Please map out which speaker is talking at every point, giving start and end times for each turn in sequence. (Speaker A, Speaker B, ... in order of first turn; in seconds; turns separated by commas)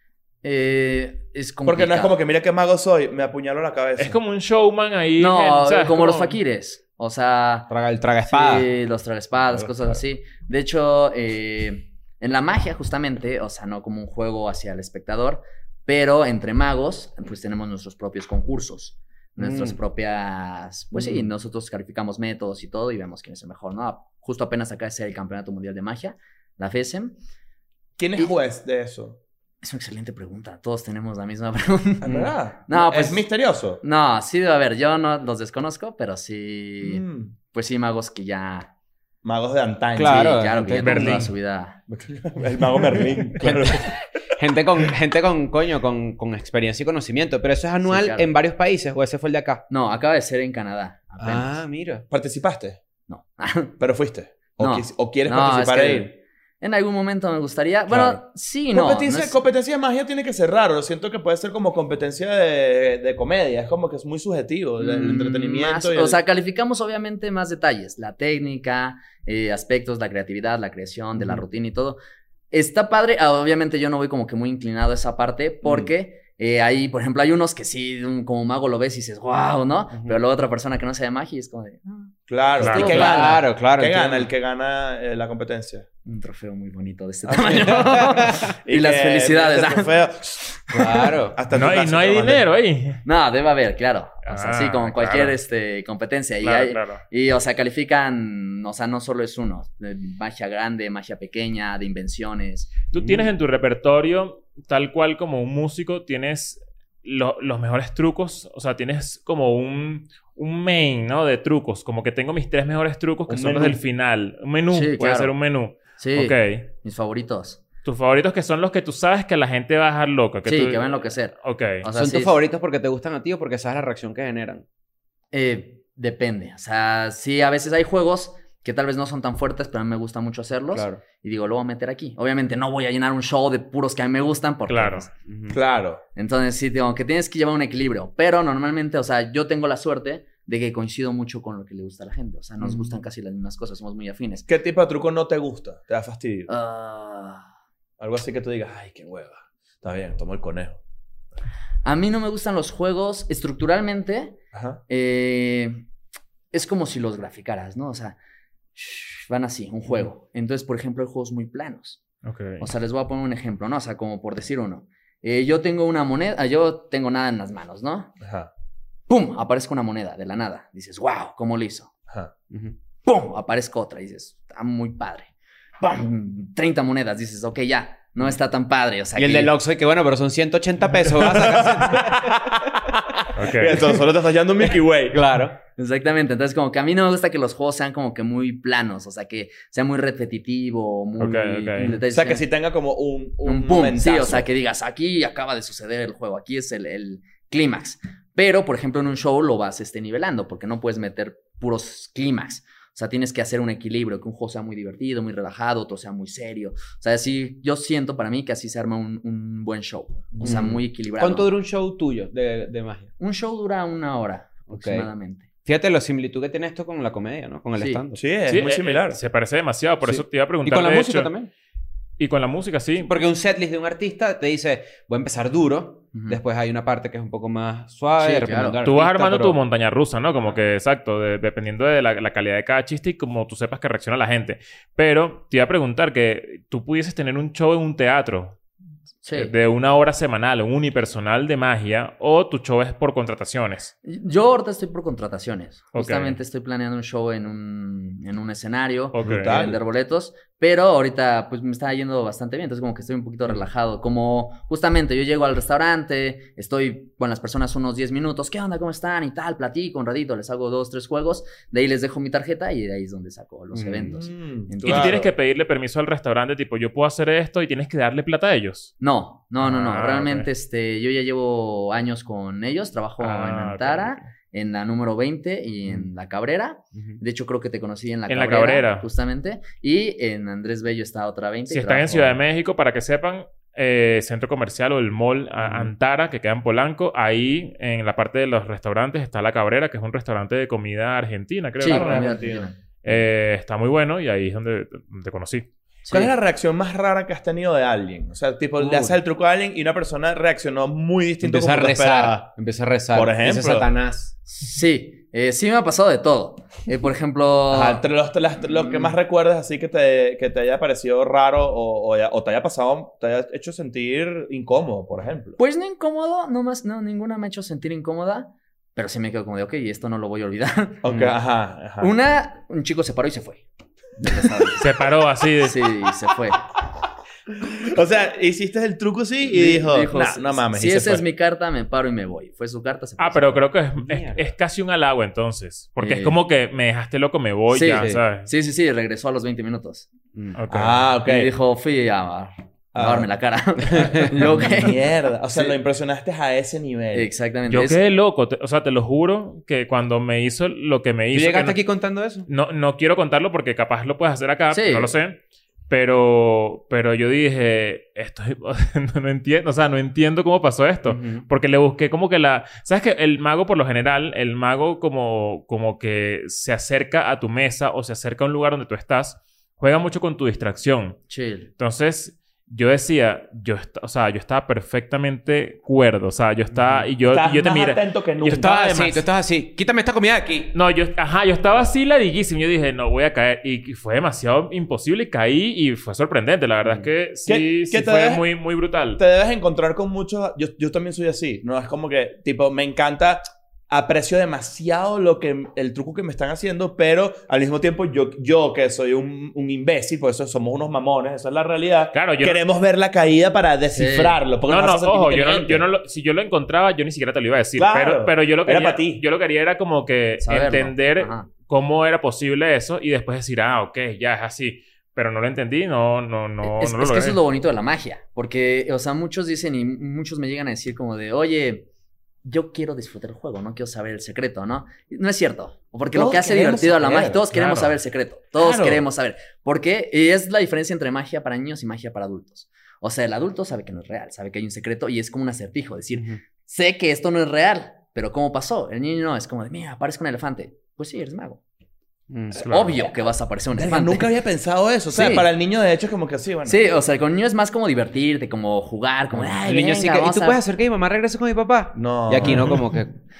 Speaker A: 0.4-2.2, Speaker B: 1.6-4.2, Speaker C: 4.0-6.4, Speaker A: 5.2-7.7, Speaker D: 7.7-8.7, Speaker A: 8.2-27.1, Speaker D: 19.4-19.8, Speaker D: 20.9-21.2, Speaker B: 28.0-29.2, Speaker A: 29.6-33.3, Speaker B: 32.0-33.8, Speaker A: 33.8-38.7, Speaker B: 36.8-37.3, Speaker B: 39.2-40.4, Speaker D: 39.9-41.3, Speaker A: 40.0-41.8, Speaker C: 40.8-41.3, Speaker B: 41.9-44.0, Speaker D: 43.4-49.6, Speaker A: 47.8-48.3, Speaker A: 49.7-51.6, Speaker D: 51.2-52.0, Speaker B: 52.1-52.8, Speaker A: 53.1-53.8, Speaker B: 53.8-56.1, Speaker A: 54.6-59.4, Speaker B: 57.9-58.2, Speaker B: 58.7-66.2, Speaker A: 64.8-72.0, Speaker A: 72.5-83.4, Speaker B: 82.3-85.8, Speaker C: 82.6-83.1, Speaker D: 82.7-84.3, Speaker A: 86.0-89.9, Speaker B: 87.3-92.4, Speaker D: 87.8-88.4, Speaker A: 90.5-91.1, Speaker D: 90.7-91.4, Speaker C: 91.5-93.0, Speaker A: 93.0-102.7, Speaker C: 94.2-95.3, Speaker C: 96.4-97.0, Speaker C: 102.9-116.7, Speaker D: 102.9-103.3, Speaker B: 113.3-113.8, Speaker A: 114.7-115.3, Speaker A: 116.0-117.6, Speaker C: 117.8-121.8, Speaker A: 120.5-122.3, Speaker D: 121.9-124.6, Speaker A: 125.3-135.1, Speaker D: 130.7-131.0, Speaker C: 134.7-135.1, Speaker D: 135.3-135.6, Speaker B: 135.5-136.0, Speaker A: 136.1-144.4, Speaker B: 144.5-146.5, Speaker A: 146.5-147.4, Speaker B: 148.0-150.8, Speaker A: 151.8-154.4, Speaker B: 154.5-154.8, Speaker A: 154.9-155.8, Speaker A: 156.5-158.2, Speaker A: 158.7-162.0, Speaker C: 162.2-162.7, Speaker A: 162.6-168.1, Speaker B: 168.2-168.5, Speaker A: 169.1-171.9, Speaker D: 172.5-172.8, Speaker A: 173.0-175.3, Speaker A: 175.8-179.5, Speaker D: 179.1-183.7, Speaker B: 181.2-185.4, Speaker C: 183.3-183.8, Speaker D: 185.1-185.6, Speaker A: 185.8-192.4, Speaker C: 191.2-191.9, Speaker B: 192.0-194.5, Speaker A: 193.4-211.5, Speaker B: 210.3-210.7, Speaker D: 210.4-213.1, Speaker A: 213.2-215.5, Speaker D: 214.7-215.1, Speaker D: 215.6-218.2, Speaker A: 217.8-218.0, Speaker B: 218.2-219.2, Speaker C: 218.5-221.3, Speaker D: 220.0-221.5, Speaker C: 222.2-223.1, Speaker D: 223.0-229.6, Speaker A: 226.1-226.4, Speaker A: 228.2-228.8, Speaker C: 228.8-238.6, Speaker A: 239.2-239.5, Speaker C: 239.3-243.9, Speaker A: 244.0-265.2, Speaker C: 245.9-246.4, Speaker C: 249.1-249.5, Speaker B: 249.2-249.8, Speaker D: 263.7-264.1, Speaker B: 264.1-265.3, Speaker C: 264.8-268.9, Speaker A: 269.0-282.4, Speaker C: 269.6-270.5, Speaker C: 273.2-274.2, Speaker C: 278.3-279.1, Speaker C: 281.7-292.5, Speaker D: 285.6-285.9, Speaker A: 291.8-292.8, Speaker B: 291.8-292.7, Speaker C: 293.0-295.7, Speaker A: 296.0-296.3, Speaker B: 296.1-302.4, Speaker A: 298.8-299.1, Speaker D: 301.4-304.3, Speaker B: 303.1-303.9, Speaker A: 304.5-308.0, Speaker B: 307.7-315.6, Speaker A: 315.6-321.1, Speaker B: 321.0-322.1, Speaker D: 321.1-321.3, Speaker A: 322.0-323.6, Speaker A: 324.2-324.9, Speaker C: 324.8-325.8, Speaker A: 325.6-326.6, Speaker B: 327.6-331.2, Speaker A: 329.5-333.6, Speaker C: 333.2-338.5, Speaker D: 334.0-334.5, Speaker A: 336.0-336.4, Speaker A: 337.7-340.1, Speaker D: 338.0-338.2, Speaker D: 340.3-340.6, Speaker C: 340.6-341.1, Speaker B: 340.7-341.5, Speaker A: 341.2-345.0, Speaker B: 342.9-343.3, Speaker D: 343.9-344.5, Speaker B: 344.4-347.3, Speaker A: 347.1-348.0, Speaker C: 347.7-351.8, Speaker D: 351.3-352.5, Speaker C: 352.5-355.4, Speaker A: 354.7-355.1, Speaker C: 355.9-371.2, Speaker D: 361.1-361.4, Speaker A: 371.3-371.7, Speaker C: 371.8-379.2, Speaker D: 376.7-377.1, Speaker B: 377.2-378.7, Speaker D: 378.4-380.7, Speaker C: 380.7-389.2, Speaker B: 387.4-388.4, Speaker B: 389.2-405.8, Speaker C: 402.1-402.6, Speaker A: 403.9-404.4, Speaker C: 404.6-417.4, Speaker B: 407.8-409.2, Speaker A: 410.4-411.5, Speaker A: 416.6-421.9, Speaker A: 422.4-441.6, Speaker B: 426.1-427.4, Speaker C: 427.5-427.9, Speaker B: 428.6-429.0, Speaker D: 442.3-442.7, Speaker C: 442.5-443.0, Speaker A: 442.6-444.3, Speaker B: 443.8-446.9, Speaker A: 445.1-445.5, Speaker A: 446.6-450.6, Speaker D: 449.3-453.1, Speaker B: 451.9-452.8